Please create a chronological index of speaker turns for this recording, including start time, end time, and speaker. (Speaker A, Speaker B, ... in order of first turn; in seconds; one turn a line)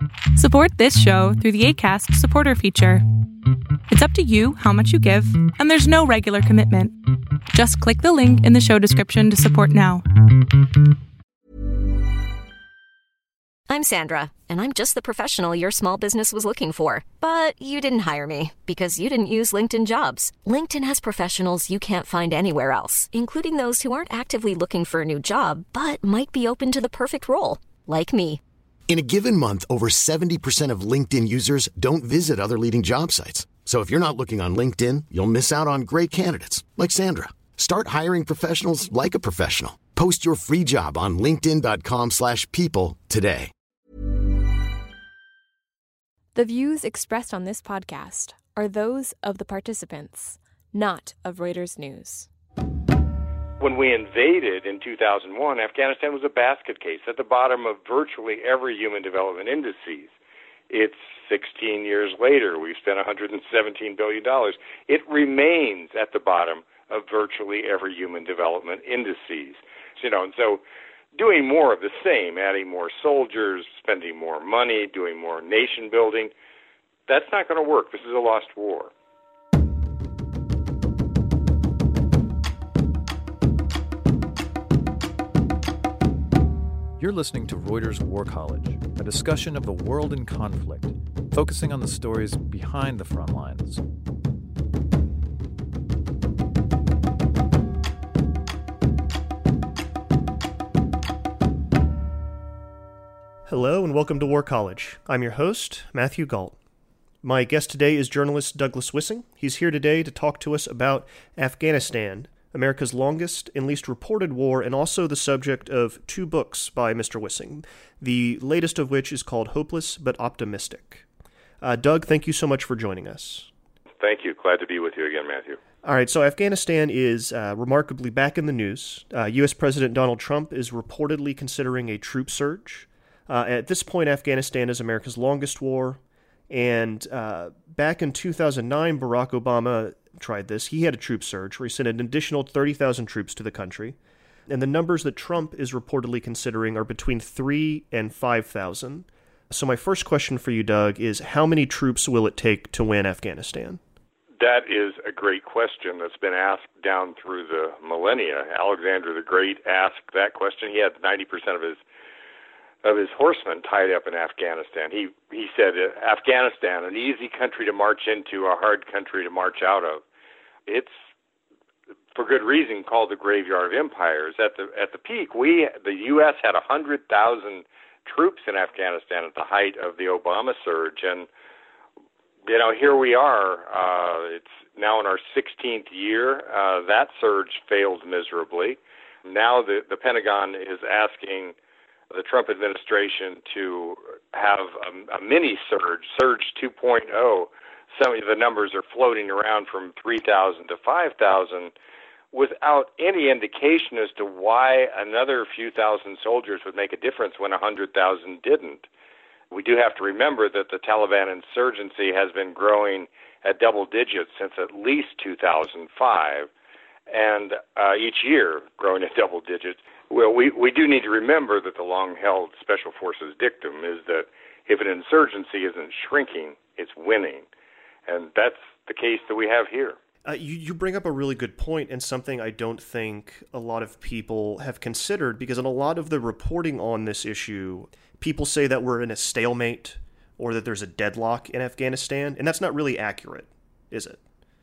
Speaker A: 0.3-3.0
Speaker A: 3.9-7.0
Speaker A: 7.5-10.1
Speaker B: 13.7-28.4
Speaker C: 28.9-43.5
Speaker D: 46.4-52.3
Speaker E: 53.6-60.1
Speaker E: 60.7-70.6
Speaker E: 71.2-76.3
Speaker E: 77.1-78.9
Speaker F: 87.0-93.8
Speaker G: 103.5-106.6
Speaker G: 107.2-121.0
Speaker G: 121.6-123.5
Speaker E: 124.0-125.6
Speaker G: 125.8-144.0
Speaker G: 144.5-153.8
Speaker E: 154.4-161.8
Speaker E: 162.8-170.0
Speaker E: 170.7-171.0
Speaker E: 172.2-181.3
Speaker E: 182.5-191.6
Speaker E: 192.1-201.7
Speaker E: 202.3-208.9
Speaker E: 209.5-216.5
Speaker E: 217.1-227.5
Speaker E: 228.1-230.0
Speaker G: 230.2-244.2